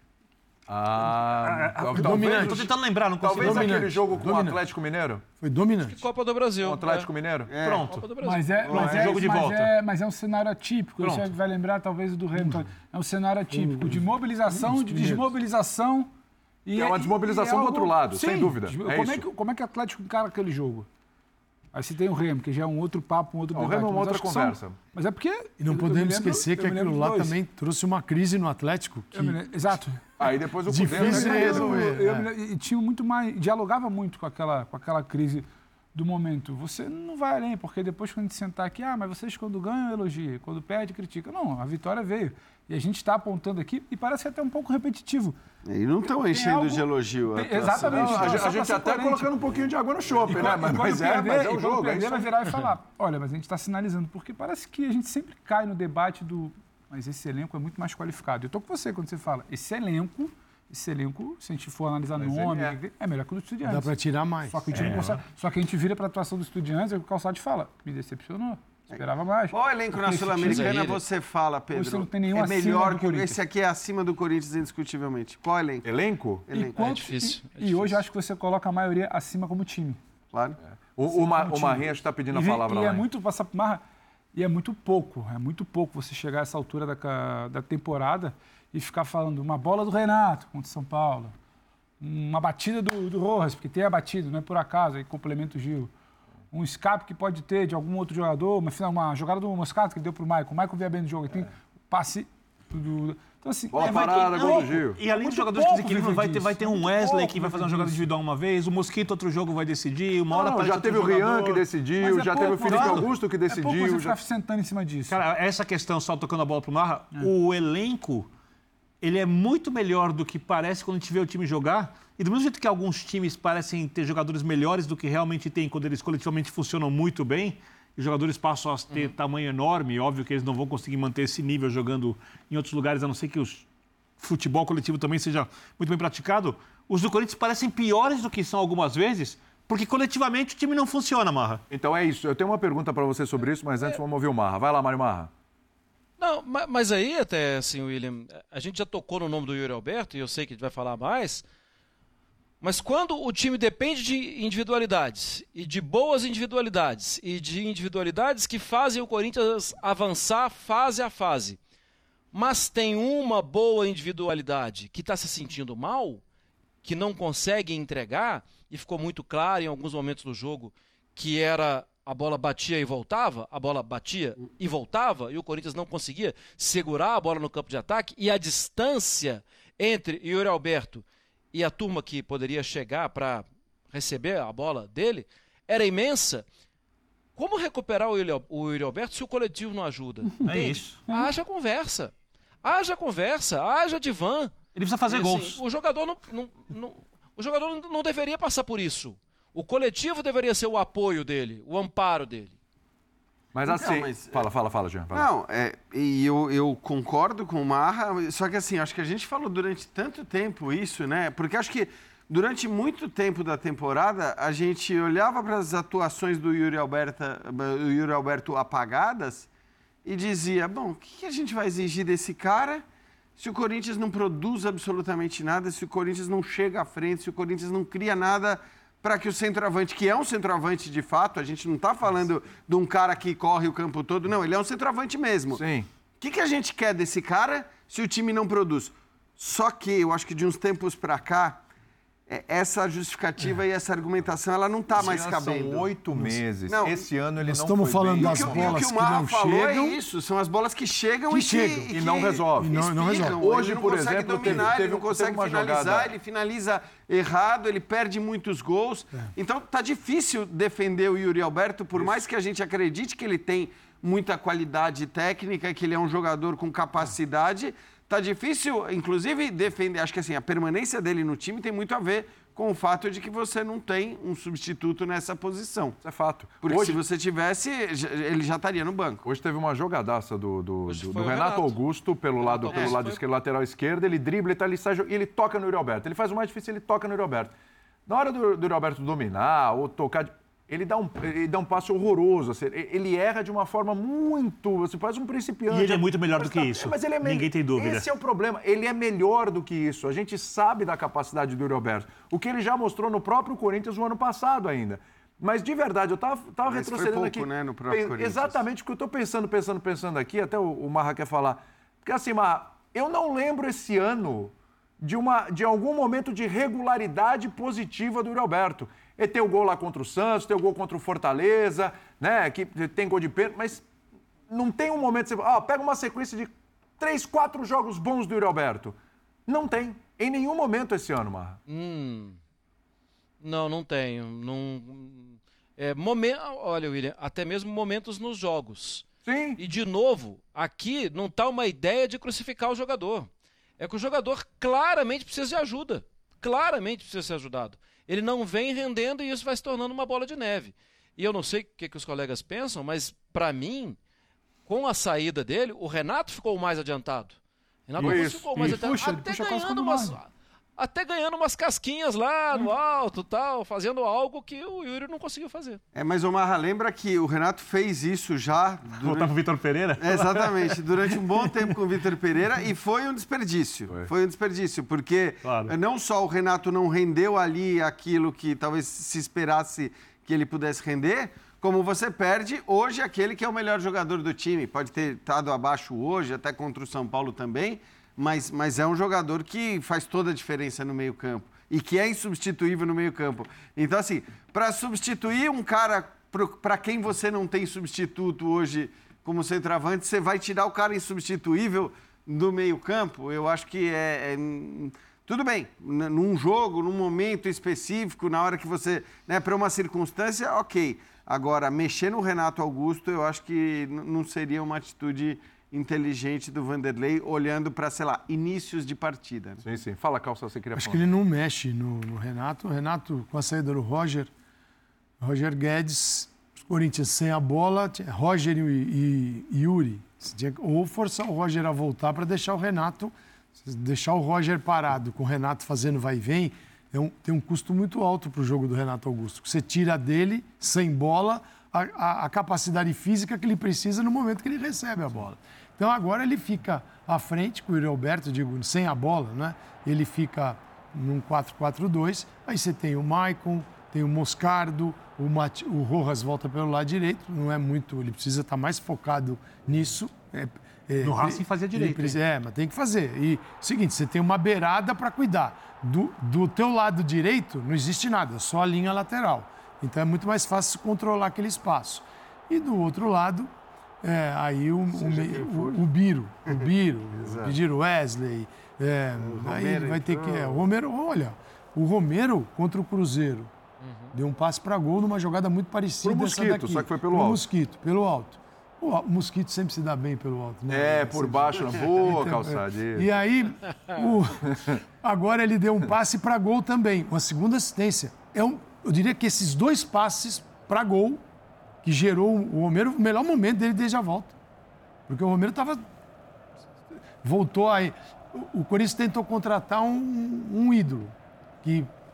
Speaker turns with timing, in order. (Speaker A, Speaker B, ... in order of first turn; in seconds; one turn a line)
Speaker A: 0.7-2.7
Speaker B: 1.4-3.9
Speaker C: 1.9-2.7
Speaker A: 3.2-5.2
Speaker C: 3.3-4.6
Speaker C: 5.4-6.0
Speaker D: 5.8-7.1
Speaker A: 6.6-7.5
Speaker E: 7.5-8.1
Speaker B: 7.6-8.1
Speaker D: 7.9-8.8
Speaker F: 8.2-16.1
Speaker E: 8.6-9.1
Speaker B: 8.7-9.7
Speaker B: 11.0-11.3
Speaker C: 13.5-15.3
Speaker F: 16.6-20.9
Speaker A: 16.7-19.2
Speaker F: 21.7-27.4
Speaker A: 23.5-24.8
Speaker C: 25.6-29.4
Speaker F: 29.1-30.2
Speaker A: 30.2-31.9
Speaker C: 30.7-32.3
Speaker F: 30.8-45.4
Speaker E: 45.7-48.6
Speaker F: 46.3-49.3
Speaker A: 47.8-52.7
Speaker F: 50.3-70.9
Speaker A: 62.1-62.8
Speaker C: 63.6-64.7
Speaker A: 64.7-65.1
Speaker E: 68.9-75.9
Speaker D: 70.5-70.9
Speaker F: 71.7-73.4
Speaker A: 75.8-76.5
Speaker E: 76.5-77.1
Speaker F: 76.5-80.0
Speaker D: 76.8-78.0
Speaker E: 80.3-80.6
Speaker A: 80.6-83.1
Speaker F: 81.3-83.8
Speaker F: 84.3-91.3
Speaker F: 92.0-95.9
Speaker F: 96.5-108.1
Speaker A: 103.7-105.0
Speaker B: 103.8-111.6
Speaker A: 110.3-114.2
Speaker F: 112.0-115.2
Speaker B: 112.7-113.0
Speaker B: 115.1-118.3
Speaker B: 119.0-133.7
Speaker B: 134.2-141.6
Speaker A: 141.7-145.3
Speaker D: 146.2-151.4
Speaker D: 152.6-161.6
Speaker D: 162.3-166.2
Speaker D: 166.8-186.4
Speaker D: 187.3-192.1
Speaker F: 190.3-191.3
Speaker B: 190.4-191.0
Speaker D: 192.6-194.6
Speaker B: 194.7-195.6
Speaker D: 195.1-202.6
Speaker A: 203.5-205.3
Speaker E: 203.7-204.5
Speaker E: 205.1-219.5
Speaker E: 220.0-222.8
Speaker E: 223.4-235.6
Speaker A: 235.5-235.9
Speaker E: 236.2-241.6
Speaker E: 242.3-247.1
Speaker A: 244.9-248.9
Speaker C: 247.4-250.0
Speaker E: 248.2-276.0
Speaker C: 251.3-253.4
Speaker A: 251.9-256.1
Speaker A: 276.0-277.0
Speaker E: 276.6-279.2
Speaker A: 279.2-287.5
Speaker D: 280.9-283.2
Speaker E: 282.7-283.0
Speaker A: 288.1-323.9
Speaker B: 295.7-298.1
Speaker E: 306.6-308.6
Speaker A: 324.5-331.6
Speaker D: 331.7-332.4
Speaker D: 333.4-354.0
Speaker A: 339.2-339.6
Speaker D: 354.6-357.4
Speaker D: 357.9-365.8
Speaker A: 358.0-358.9
Speaker F: 358.0-360.2
Speaker E: 365.9-369.3
Speaker B: 368.9-371.5
Speaker E: 370.0-419.6
Speaker B: 375.4-375.7
Speaker A: 419.6-421.0
Speaker C: 420.8-424.3
Speaker C: 425.2-473.5
Speaker B: 461.0-462.2
Speaker C: 474.0-483.5
Speaker E: 474.9-475.8
Speaker E: 477.2-477.6
Speaker E: 479.2-480.6
Speaker D: 483.8-484.1
Speaker C: 484.1-501.2
Speaker A: 486.0-487.4
Speaker A: 490.7-493.1
Speaker A: 494.5-494.8
Speaker C: 501.8-504.4
Speaker C: 505.1-505.8
Speaker C: 507.2-511.9